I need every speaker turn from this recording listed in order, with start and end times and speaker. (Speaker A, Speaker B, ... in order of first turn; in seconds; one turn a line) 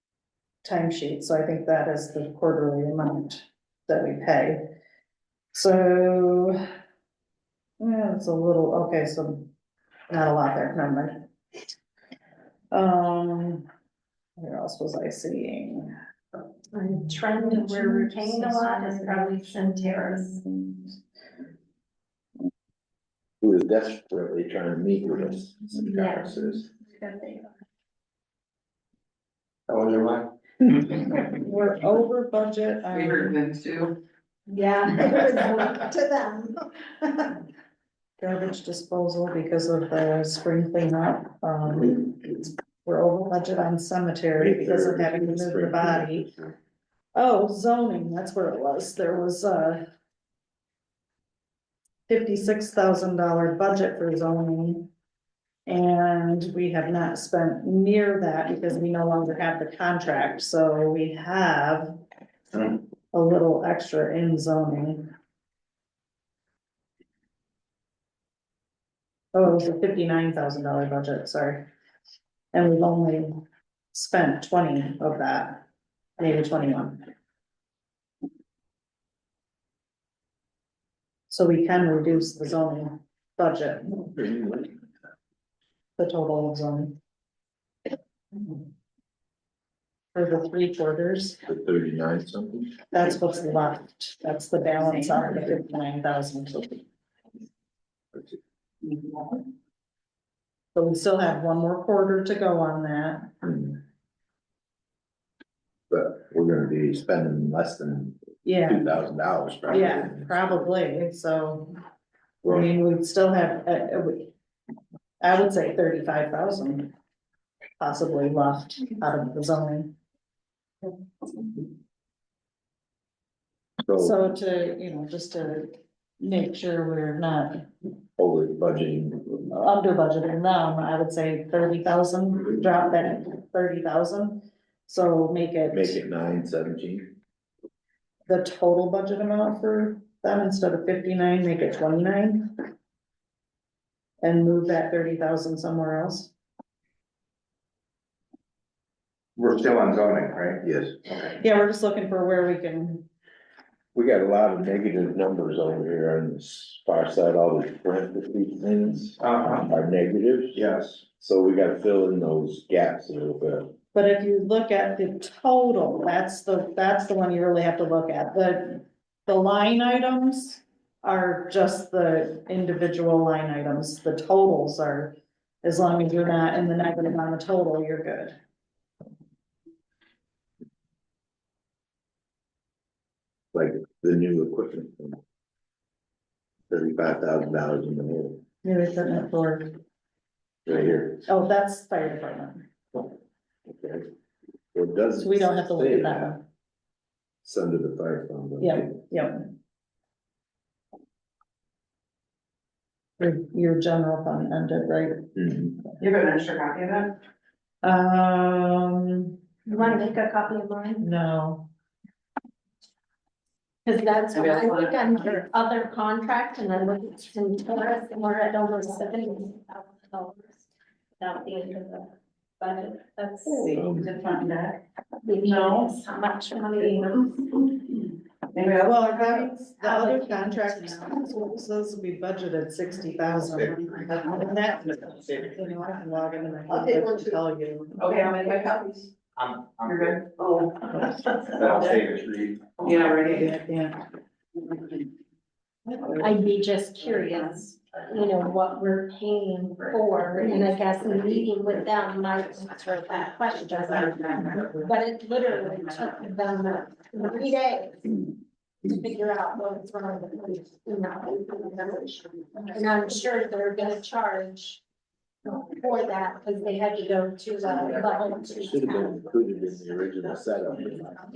Speaker A: 0.6-4.6
Speaker A: 5.5-6.6
Speaker A: 7.8-9.5
Speaker A: 10.1-11.2
Speaker A: 12.7-13.7
Speaker A: 14.4-15.9
Speaker B: 16.7-20.4
Speaker A: 17.2-21.0
Speaker C: 23.4-26.7
Speaker B: 25.8-27.5
Speaker D: 29.7-30.3
Speaker A: 30.7-33.4
Speaker E: 32.9-34.0
Speaker B: 34.5-37.3
Speaker A: 38.2-46.2
Speaker C: 44.4-46.6
Speaker A: 47.1-49.9
Speaker A: 52.1-54.9
Speaker A: 55.7-62.0
Speaker A: 63.1-65.1
Speaker A: 69.3-71.7
Speaker A: 72.5-73.3
Speaker A: 73.9-75.7
Speaker A: 76.2-77.0
Speaker A: 81.3-84.0
Speaker C: 84.1-84.8
Speaker A: 86.0-87.0
Speaker A: 90.1-91.4
Speaker C: 91.5-92.8
Speaker A: 92.9-96.8
Speaker A: 100.8-103.3
Speaker C: 103.4-103.8
Speaker C: 105.9-110.4
Speaker A: 108.5-108.8
Speaker A: 109.7-111.7
Speaker C: 112.4-112.7
Speaker A: 112.5-114.3
Speaker A: 115.2-116.9
Speaker A: 117.8-119.9
Speaker C: 123.9-124.2
Speaker A: 124.0-127.6
Speaker C: 128.2-129.4
Speaker A: 129.5-136.0
Speaker C: 135.7-137.2
Speaker A: 138.3-142.5
Speaker A: 144.2-146.3
Speaker D: 149.4-150.6
Speaker C: 150.6-151.0
Speaker A: 151.4-153.1
Speaker C: 153.9-163.8
Speaker D: 159.2-159.6
Speaker D: 160.6-161.0
Speaker A: 163.9-178.3
Speaker C: 183.5-185.2
Speaker C: 186.7-188.4
Speaker A: 188.6-189.7
Speaker C: 190.7-191.2
Speaker A: 191.3-192.7
Speaker C: 193.7-194.1
Speaker C: 194.7-196.4
Speaker A: 195.2-196.4
Speaker C: 197.4-199.0
Speaker A: 198.6-199.5
Speaker A: 203.2-205.3
Speaker C: 205.3-205.8
Speaker E: 206.0-207.1
Speaker A: 207.8-209.4
Speaker B: 209.7-211.1
Speaker A: 211.0-211.7
Speaker B: 213.8-220.7
Speaker E: 214.3-215.0
Speaker B: 221.2-223.8
Speaker E: 223.6-224.8
Speaker C: 223.7-224.2
Speaker B: 225.2-227.8
Speaker E: 225.4-225.9
Speaker E: 228.5-229.4
Speaker A: 228.8-238.0
Speaker B: 229.8-231.1
Speaker E: 238.0-239.2
Speaker D: 239.3-240.2
Speaker E: 239.8-241.9
Speaker A: 241.1-241.9
Speaker D: 241.6-242.8
Speaker E: 242.8-243.5
Speaker A: 242.9-244.0
Speaker E: 246.0-246.3
Speaker B: 246.2-258.3
Speaker B: 258.8-264.8
Speaker B: 265.5-269.1
Speaker C: 268.5-271.2